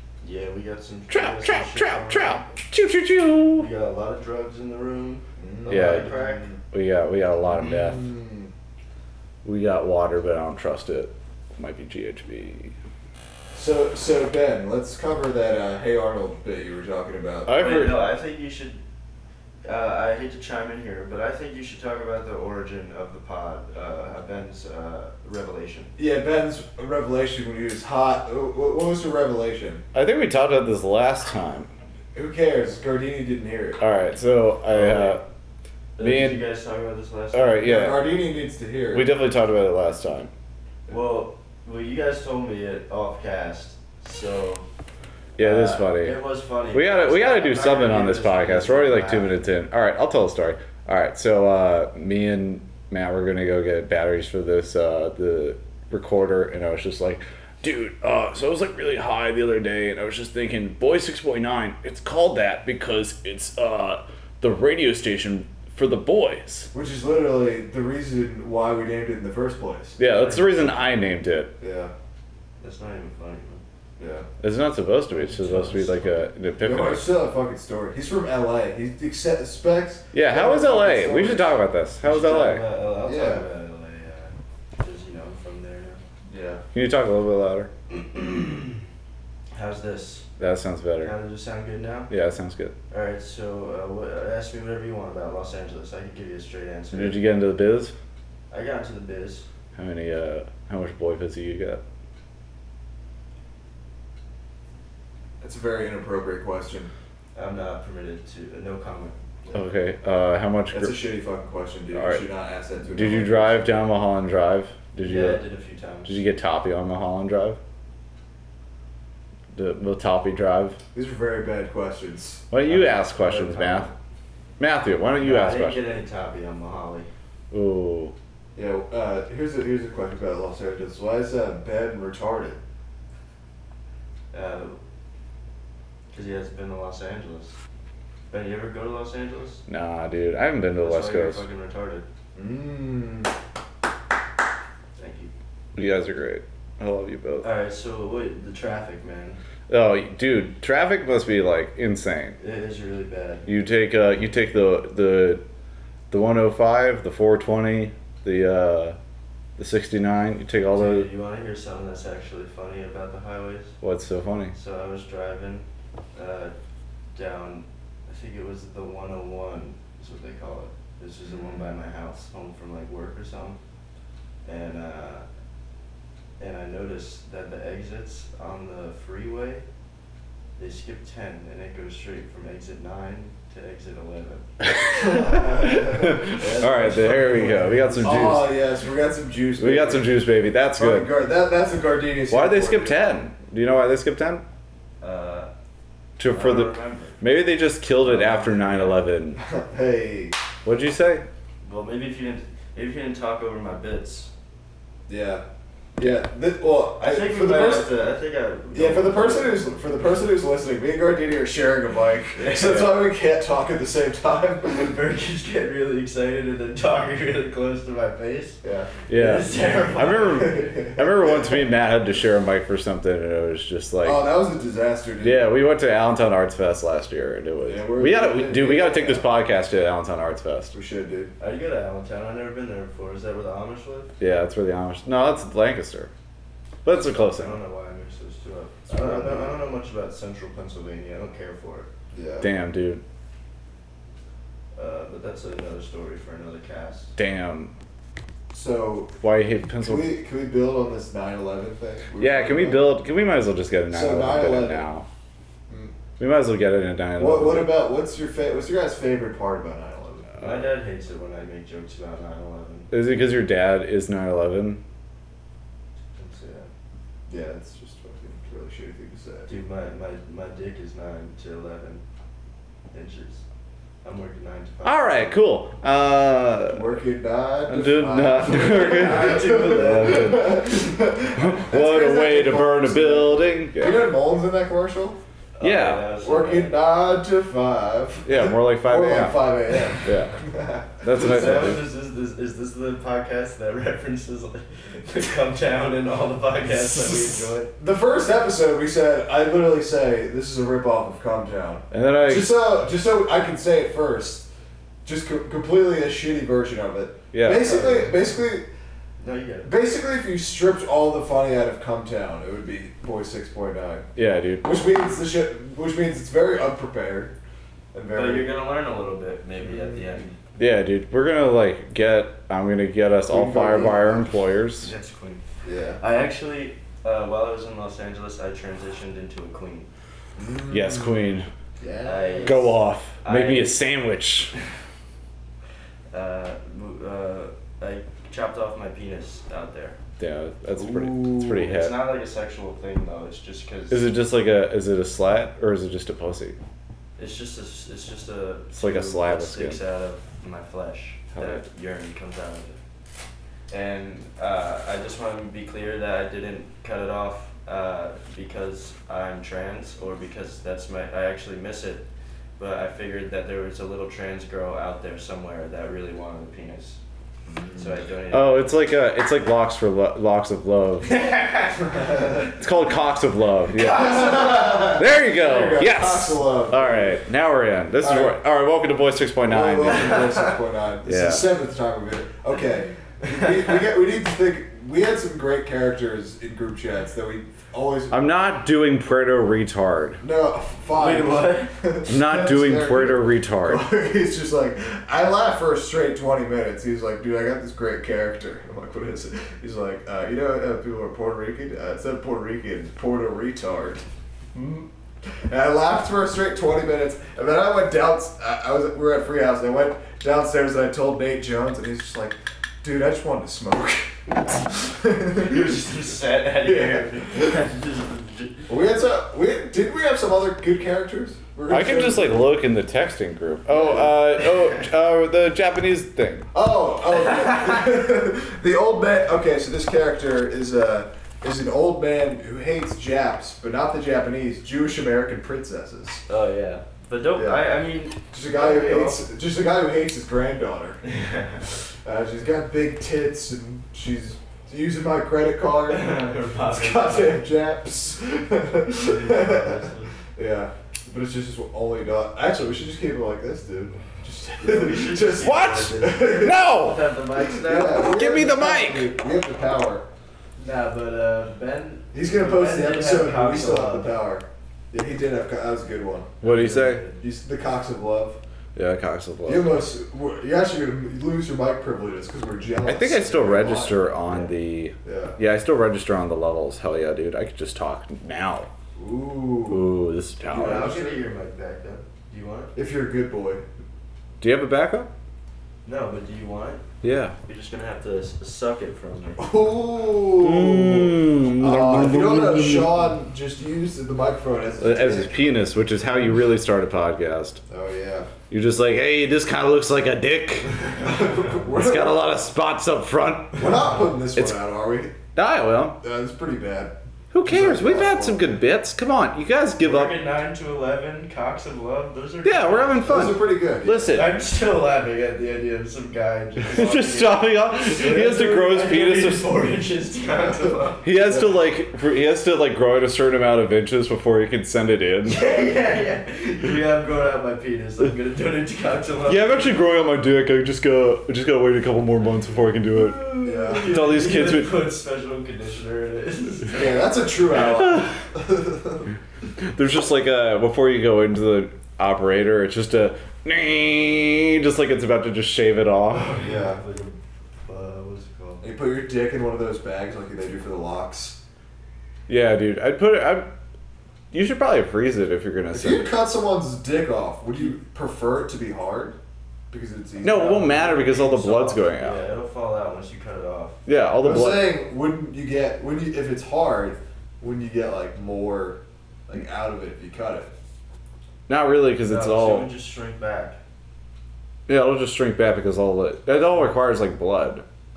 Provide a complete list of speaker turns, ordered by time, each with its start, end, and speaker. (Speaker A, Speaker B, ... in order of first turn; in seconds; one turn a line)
Speaker A: 0.2-2.6
Speaker B: 1.1-3.7
Speaker A: 3.5-6.5
Speaker C: 5.4-6.6
Speaker B: 5.7-6.2
Speaker B: 6.7-8.1
Speaker C: 7.5-8.5
Speaker B: 9.4-12.8
Speaker C: 13.5-17.6
Speaker B: 17.5-18.1
Speaker A: 17.5-18.8
Speaker A: 19.7-25.9
Speaker C: 26.0-29.9
Speaker B: 29.9-31.7
Speaker C: 32.1-33.8
Speaker B: 33.8-35.2
Speaker C: 34.7-35.2
Speaker A: 36.0-37.7
Speaker B: 36.0-36.4
Speaker B: 37.3-38.1
Speaker C: 37.6-39.1
Speaker B: 38.9-40.3
Speaker A: 40.9-44.6
Speaker B: 45.4-46.2
Speaker A: 45.4-49.3
Speaker B: 46.7-66.7
Speaker C: 66.7-70.0
Speaker B: 70.0-71.5
Speaker A: 70.0-70.8
Speaker C: 71.6-71.9
Speaker A: 72.6-73.6
Speaker C: 74.0-74.3
Speaker B: 74.4-77.1
Speaker A: 75.1-76.3
Speaker C: 76.6-81.6
Speaker B: 80.1-82.6
Speaker A: 82.0-86.0
Speaker C: 83.0-83.5
Speaker C: 86.3-86.6
Speaker B: 86.7-87.7
Speaker A: 87.9-88.8
Speaker A: 89.5-90.3
Speaker B: 90.4-91.1
Speaker A: 91.0-92.1
Speaker B: 92.1-92.7
Speaker A: 92.9-97.2
Speaker B: 96.9-98.0
Speaker A: 98.5-99.5
Speaker B: 99.8-101.8
Speaker C: 105.4-106.9
Speaker A: 107.3-109.6
Speaker B: 109.5-111.0
Speaker C: 110.7-113.7
Speaker B: 111.9-112.2
Speaker B: 112.9-115.4
Speaker A: 115.0-116.2
Speaker B: 116.0-117.6
Speaker B: 119.5-120.8
Speaker C: 120.9-122.5
Speaker B: 122.5-123.9
Speaker A: 122.7-123.9
Speaker B: 124.6-125.8
Speaker A: 125.2-127.1
Speaker B: 127.5-128.1
Speaker C: 128.6-132.6
Speaker A: 134.3-134.8
Speaker A: 136.1-137.6
Speaker A: 138.3-139.7
Speaker B: 139.7-141.4
Speaker A: 140.8-142.1
Speaker C: 142.4-143.3
Speaker A: 145.0-145.3
Speaker B: 145.8-147.5
Speaker A: 147.4-149.4
Speaker B: 149.7-152.4
Speaker A: 152.4-153.5
Speaker B: 153.5-155.4
Speaker B: 156.1-159.0
Speaker B: 159.6-161.1
Speaker A: 160.7-163.8
Speaker B: 163.8-164.5
Speaker A: 164.5-166.5
Speaker A: 167.1-173.6
Speaker A: 174.4-175.3
Speaker A: 176.4-179.7
Speaker A: 180.6-188.2
Speaker B: 184.6-188.6
Speaker C: 185.1-186.3
Speaker C: 187.4-193.2
Speaker B: 189.6-191.1
Speaker B: 192.3-194.4
Speaker A: 195.0-195.5
Speaker B: 196.2-199.4
Speaker A: 196.3-197.2
Speaker C: 198.1-198.6
Speaker A: 198.1-199.0
Speaker C: 199.4-200.4
Speaker B: 200.7-201.3
Speaker A: 201.6-204.3
Speaker C: 205.1-205.4
Speaker C: 206.0-207.9
Speaker A: 207.0-209.7
Speaker C: 208.7-214.9
Speaker A: 212.3-212.8
Speaker B: 212.6-213.0
Speaker A: 214.6-221.0
Speaker C: 218.6-218.9
Speaker B: 219.1-224.2
Speaker C: 220.5-221.7
Speaker C: 224.0-225.6
Speaker B: 225.2-230.8
Speaker C: 227.6-229.3
Speaker C: 230.7-231.3
Speaker A: 231.4-234.1
Speaker B: 234.2-236.1
Speaker B: 236.8-237.6
Speaker A: 236.9-241.9
Speaker C: 238.9-239.7
Speaker C: 242.1-242.5
Speaker B: 242.4-243.0
Speaker A: 244.8-247.1
Speaker B: 247.2-247.7
Speaker C: 248.5-249.2
Speaker B: 249.2-250.1
Speaker C: 249.8-253.0
Speaker B: 252.2-255.1
Speaker C: 253.9-254.8
Speaker C: 255.7-255.9
Speaker B: 256.2-257.9
Speaker C: 257.2-260.3
Speaker A: 260.4-262.9
Speaker B: 260.4-260.7
Speaker B: 262.9-264.8
Speaker A: 266.2-266.7
Speaker C: 267.3-269.5
Speaker A: 269.5-272.0
Speaker A: 272.9-273.4
Speaker A: 274.0-275.4
Speaker B: 274.8-276.9
Speaker C: 276.7-285.2
Speaker B: 277.7-284.1
Speaker A: 278.5-280.5
Speaker A: 285.6-286.8
Speaker B: 285.6-286.1
Speaker C: 286.2-291.8
Speaker B: 288.3-290.4
Speaker B: 291.0-291.9
Speaker A: 291.1-297.7
Speaker C: 297.8-304.5
Speaker B: 301.9-302.6
Speaker C: 305.1-308.7
Speaker B: 307.3-307.9
Speaker A: 307.6-308.1
Speaker A: 309.2-309.7
Speaker C: 309.6-314.1
Speaker B: 314.2-314.9
Speaker C: 314.6-317.4
Speaker C: 317.9-318.5
Speaker A: 318.1-320.3
Speaker C: 319.6-320.2
Speaker B: 320.6-324.9
Speaker C: 323.3-324.4
Speaker A: 324.8-325.4
Speaker C: 325.6-326.0
Speaker A: 326.0-329.9
Speaker C: 330.4-331.2
Speaker B: 330.7-331.5
Speaker C: 331.8-332.7
Speaker A: 332.1-333.8
Speaker B: 332.4-334.5
Speaker A: 336.1-340.0
Speaker B: 340.2-341.9
Speaker C: 340.8-341.7
Speaker A: 341.6-344.1
Speaker B: 343.9-346.6
Speaker A: 347.2-352.8
Speaker B: 348.8-349.8
Speaker B: 351.4-351.6
Speaker A: 353.7-362.1
Speaker A: 362.6-367.0
Speaker C: 367.5-367.9
Speaker A: 367.8-368.9
Speaker B: 368.3-371.3
Speaker A: 371.1-372.4
Speaker B: 372.4-380.4
Speaker C: 373.8-377.2
Speaker C: 378.0-378.4
Speaker C: 379.4-388.3
Speaker A: 379.9-380.5
Speaker B: 381.1-381.5
Speaker A: 383.2-383.8
Speaker B: 388.1-390.2
Speaker C: 390.2-415.8
Speaker A: 390.9-391.7
Speaker B: 392.1-393.8
Speaker A: 415.4-418.7
Speaker C: 416.6-417.6
Speaker C: 418.7-422.6
Speaker B: 421.7-426.5
Speaker C: 423.7-424.2
Speaker C: 426.5-436.2
Speaker A: 427.1-427.9
Speaker A: 436.3-439.2
Speaker C: 437.4-437.7
Speaker C: 438.2-441.0
Speaker A: 441.0-441.6
Speaker C: 442.1-446.1
Speaker A: 445.9-447.5
Speaker C: 446.7-456.7
Speaker A: 449.0-450.1
Speaker A: 454.6-458.1
Speaker B: 455.3-457.0
Speaker C: 457.4-460.1
Speaker B: 457.9-459.1
Speaker A: 460.6-464.1
Speaker C: 462.1-466.4
Speaker B: 466.4-467.1
Speaker A: 466.4-467.2
Speaker C: 467.2-468.4
Speaker B: 468.8-469.7
Speaker C: 469.5-474.0
Speaker B: 472.9-478.7
Speaker C: 475.0-475.4
Speaker C: 479.0-479.9
Speaker B: 479.7-480.9
Speaker C: 480.5-481.2
Speaker A: 480.5-482.8
Speaker C: 482.8-483.6
Speaker B: 484.4-485.1
Speaker A: 485.9-486.9
Speaker B: 487.0-487.4
Speaker A: 487.4-489.6
Speaker C: 489.4-495.3
Speaker B: 490.3-493.1
Speaker B: 494.8-497.6
Speaker C: 497.7-498.3
Speaker B: 498.5-500.8
Speaker C: 500.9-502.2
Speaker B: 501.7-503.8
Speaker C: 503.6-505.2
Speaker B: 505.4-506.0
Speaker C: 506.0-508.6
Speaker B: 507.3-510.2
Speaker A: 509.8-513.3
Speaker B: 512.4-514.3
Speaker C: 513.0-514.2
Speaker A: 514.1-521.1
Speaker B: 516.7-519.5
Speaker B: 521.0-525.5
Speaker C: 521.2-521.6
Speaker A: 525.3-529.8
Speaker B: 529.3-534.8
Speaker A: 533.1-537.6
Speaker C: 533.4-534.0
Speaker C: 536.7-539.1
Speaker B: 537.5-538.2
Speaker B: 539.7-546.4
Speaker A: 546.1-548.6
Speaker C: 546.4-546.8
Speaker C: 548.6-551.4
Speaker B: 552.3-553.5
Speaker B: 554.3-556.1
Speaker C: 555.7-559.2
Speaker C: 559.7-560.6
Speaker B: 560.2-562.3
Speaker A: 560.3-563.8
Speaker B: 563.9-564.8
Speaker C: 564.2-570.5
Speaker B: 571.5-572.7
Speaker A: 572.1-573.6
Speaker B: 574.7-577.6